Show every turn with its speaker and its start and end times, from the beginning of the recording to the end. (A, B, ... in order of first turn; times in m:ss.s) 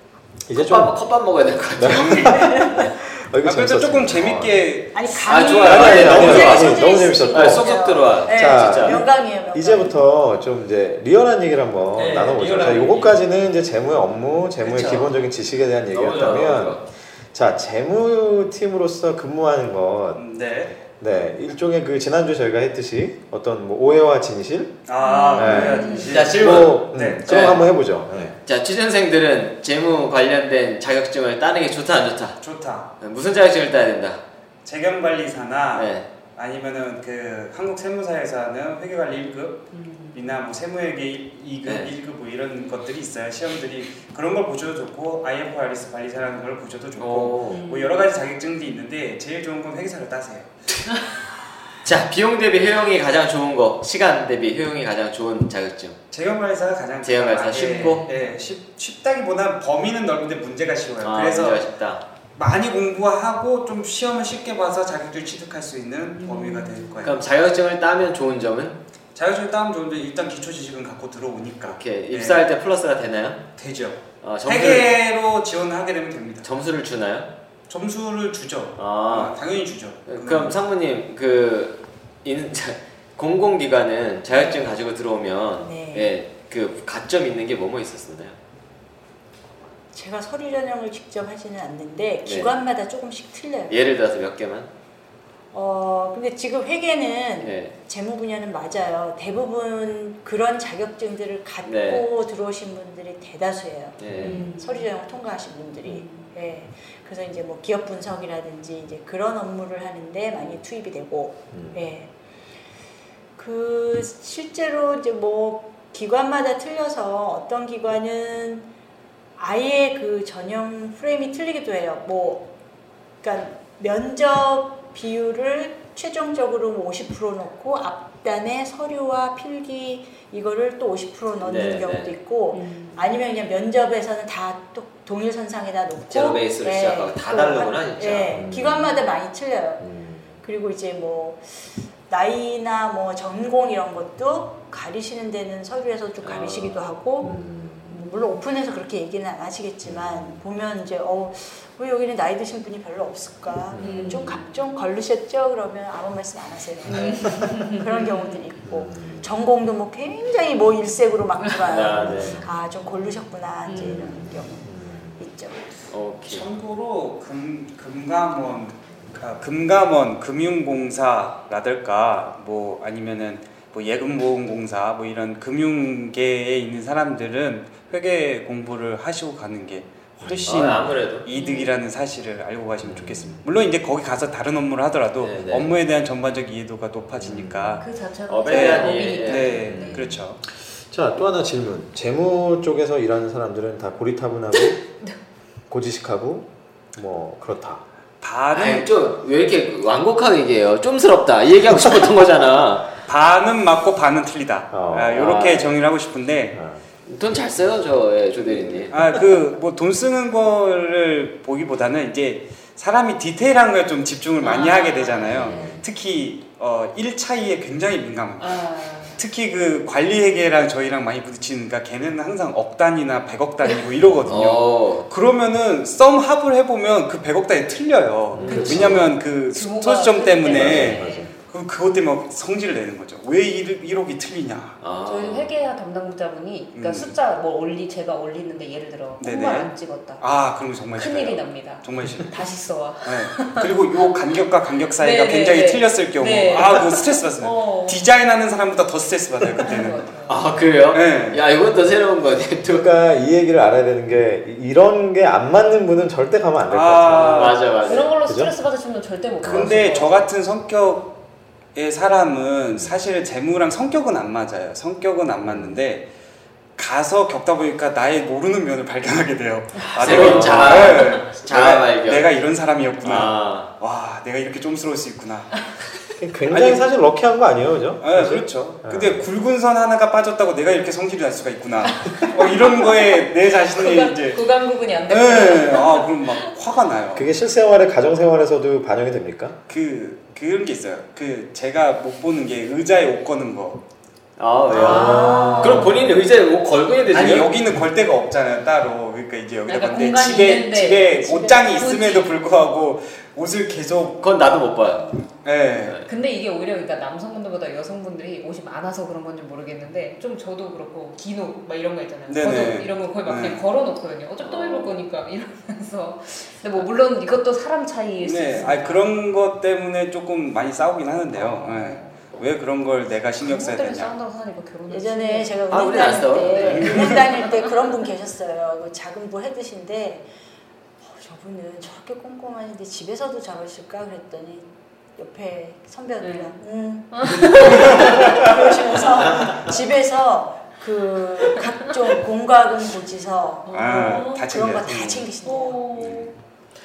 0:00.4-0:01.0 A
0:00.5-0:02.6 B
0:01.8-0:04.6 A
0:02.0-0:02.3 C
0:02.3-0:02.8 D
0:03.4-0:06.6 C
0:04.9-0:10.0 D
0:05.2-0:09.0 B
0:05.6-0:20.2 A
0:11.9-0:13.1 B
0:12.3-0:13.1 C
0:14.6-0:15.1 C
0:14.7-0:15.1 B
0:15.9-0:16.8 B
0:20.1-0:20.7 C
0:20.8-0:24.8 A
0:24.9-0:27.6 C
0:25.0-0:26.2 E
0:25.3-0:28.4 A
0:25.9-0:27.7 B
0:28.4-0:32.4 B
0:32.4-0:32.9 C
0:33.0-0:34.2 B
0:34.6-0:50.8 C
0:35.7-0:36.1 B
0:39.7-0:40.2 E
0:41.6-0:41.9 B
0:47.0-0:47.6 B
0:47.5-0:48.1 E
0:51.8-0:56.0 B
0:56.1-1:01.7 C
0:57.0-0:58.1 B
1:01.0-1:02.0 B
1:02.4-1:07.2 C
1:06.2-1:06.9 E
1:07.0-1:08.8 B
1:09.1-1:12.4 C
1:11.6-1:13.4 B
1:13.6-1:16.4 C
1:14.2-1:14.9 B
1:16.4-1:17.3 B
1:17.7-1:20.6 C
1:18.8-1:19.4 B
1:20.0-1:28.4 B
1:25.6-1:26.1 D
1:29.9-1:33.8 D
1:32.2-1:32.5 B
1:33.7-1:34.7 B
1:35.5-1:52.1 D
1:37.4-1:37.7 B
1:41.6-1:42.0 B
1:44.0-1:44.4 B
1:44.1-1:44.4 A
1:44.2-1:44.8 E
1:45.8-1:46.3 E
1:51.5-1:51.8 A
1:53.4-1:58.7 D
1:59.4-2:02.5 D
2:03.2-2:19.8 D
2:11.4-2:12.2 B
2:12.5-2:13.1 E
2:16.1-2:18.4 B
2:18.3-2:19.0 A
2:19.8-2:20.4 A
2:20.4-2:45.7 D
2:26.2-2:26.9 B
2:27.2-2:28.4 E
2:27.2-2:28.0 A
2:29.8-2:30.4 A
2:33.7-2:34.4 A
2:33.8-2:34.6 E
2:36.9-2:38.4 E
2:36.9-2:37.4 B
2:38.6-2:39.3 A
2:41.6-2:42.4 B
2:41.9-2:42.5 A
2:43.6-2:44.0 E
2:43.7-2:45.2 A
2:45.9-2:46.5 B
2:46.3-3:07.9 C
3:00.2-3:00.8 A
3:00.4-3:01.3 B
3:01.3-3:01.8 E
3:02.8-3:03.4 A
3:05.2-3:05.7 B
3:07.2-3:07.8 A
3:07.8-3:10.1 E
3:08.3-3:09.6 B
3:08.5-3:10.4 C
3:09.6-3:14.8 A
3:15.7-3:17.8 A
3:18.2-3:18.9 C
3:18.5-3:22.9 B
3:23.1-3:26.6 C
3:24.7-3:25.3 A
3:25.1-3:25.8 B
3:26.5-3:26.8 A
3:27.0-3:29.0 B
3:28.6-3:54.8 C
3:34.4-3:35.8 E
3:35.3-3:35.8 B
3:38.4-3:39.2 E
3:44.2-3:45.0 B
3:48.3-3:49.1 A
3:48.4-3:49.0 B
3:48.4-3:51.4 E
3:50.5-3:51.3 A
3:54.8-3:55.5 B
3:55.0-4:00.2 E
3:56.7-3:57.1 C
3:59.2-4:02.4 C
4:00.9-4:04.0 E
4:03.0-4:10.0 C
4:05.0-4:08.0 E
4:09.6-4:10.4 E
4:10.3-4:12.9 B
4:10.9-4:11.4 C
4:12.6-4:17.6 A
4:16.7-4:17.7 C
4:17.1-4:18.1 B
4:17.7-4:20.2 E
4:18.3-4:18.5 A
4:19.4-4:20.0 A
4:19.4-4:21.1 C
4:21.7-4:26.0 C
4:22.7-4:23.0 A
4:25.4-4:25.8 A
4:26.8-4:35.5 C
4:29.9-4:32.3 B
4:30.0-4:30.7 A
4:33.0-4:33.7 B
4:36.2-4:39.2 A
4:36.5-4:36.8 C
4:38.0-4:44.4 C
4:41.9-4:46.5 E
4:45.1-4:47.3 C
4:47.1-4:49.6 A
4:49.7-4:53.8 C
4:54.4-4:57.5 B
4:54.7-4:56.2 A
4:54.7-4:55.9 E
4:54.9-4:55.2 C
4:57.1-5:04.2 C
4:59.7-5:02.3 E
5:04.2-5:05.2 B
5:05.0-5:05.4 E
5:05.4-5:06.0 C
5:06.0-5:19.1 E
5:12.3-5:13.6 C
5:14.4-5:14.9 B
5:18.2-5:24.2 C
5:21.3-5:22.2 E
5:23.4-5:27.7 E
5:24.9-5:30.2 D
5:25.7-5:27.0 B
5:26.6-5:27.2 C
5:31.0-5:45.8 D
5:36.2-5:36.5 E
5:37.1-5:38.5 E
5:37.6-5:38.4 C
5:43.7-5:44.6 E
5:43.7-5:45.3 C
5:45.4-5:46.3 E
5:46.0-5:46.3 C